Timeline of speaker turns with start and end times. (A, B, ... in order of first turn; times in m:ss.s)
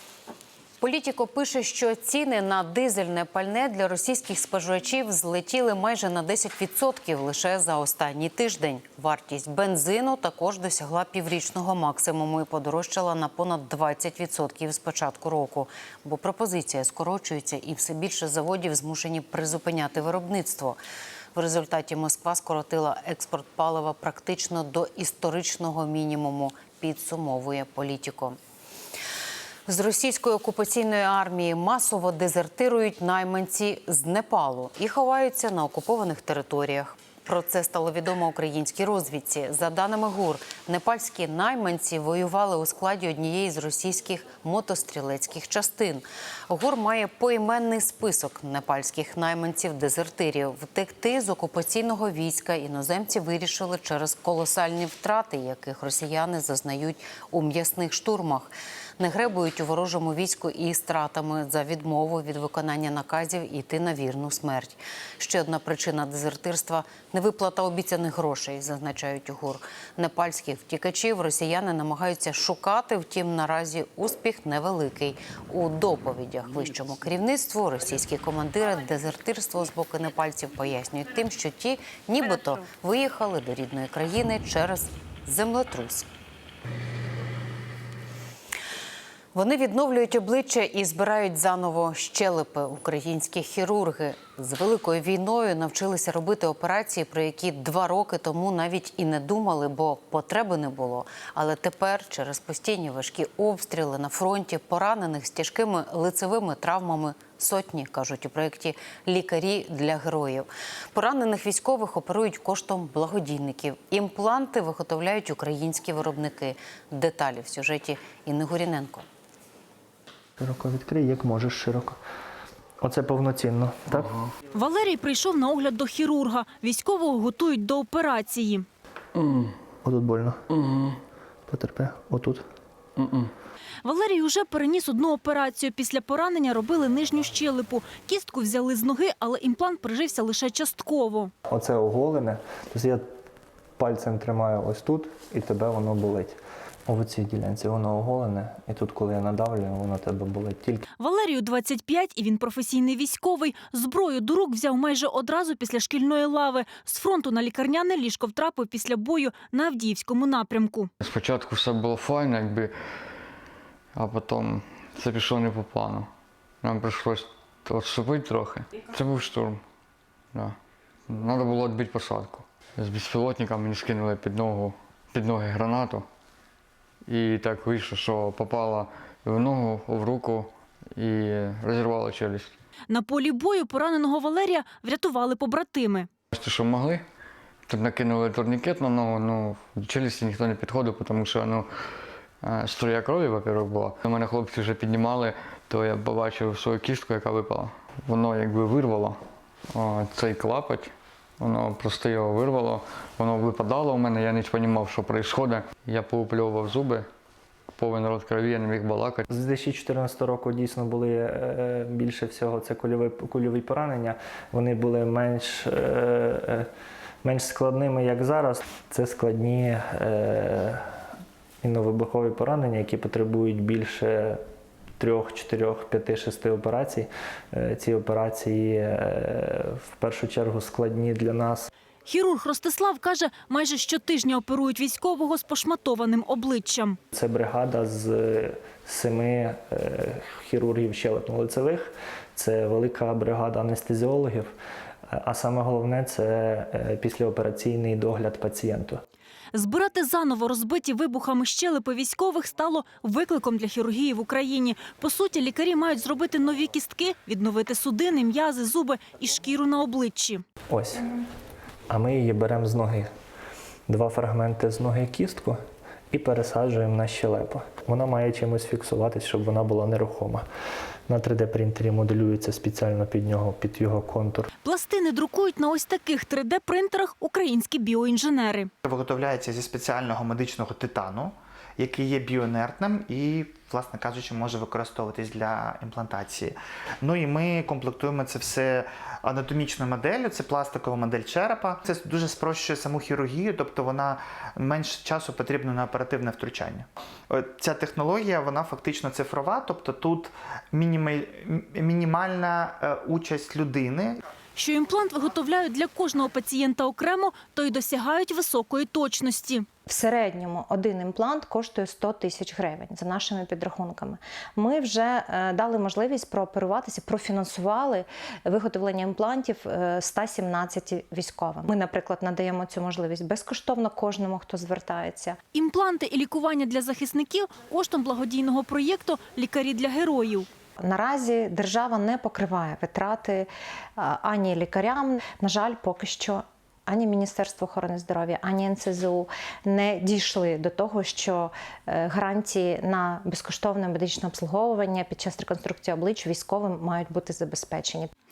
0:00.8-0:20.8 A
0:21.3-0:28.4 A
0:29.6-1:26.0 A
1:29.3-1:59.0 A
2:00.4-2:02.0 B
2:02.8-2:04.2 B
2:04.6-2:08.6 C
2:09.2-2:09.4 D
2:09.8-2:10.4 B
2:11.5-2:12.4 B
2:13.0-2:13.3 D
2:13.8-2:21.3 C
2:21.5-2:23.0 B
2:23.8-2:30.8 B
2:31.0-2:40.9 C
2:41.0-2:42.7 D
2:43.9-2:46.1 D
2:46.6-2:49.6 D
2:51.1-2:56.0 D
2:57.1-3:02.5 D
3:02.9-3:06.1 C
3:06.3-3:07.0 D
3:07.7-3:11.7 D
3:12.4-3:19.2 D
3:19.7-3:27.1 D
3:27.8-3:29.2 D
3:29.3-3:36.7 B
3:37.2-3:40.8 B
3:41.6-3:44.4 B
3:45.0-3:51.7 B
3:52.1-3:57.0 C
3:57.1-4:04.5 B
4:05.1-4:09.0 B
4:09.5-4:20.4 C
4:20.7-4:21.1 B
4:21.9-4:23.1 B
4:23.9-4:25.6 B
4:26.1-4:30.4 B
4:31.1-4:34.5 B
4:34.6-4:38.7 C
4:38.8-5:04.2 E
5:04.6-5:09.6 C
5:09.9-5:25.4 F
5:25.5-5:30.4 C
5:30.8-5:48.1 F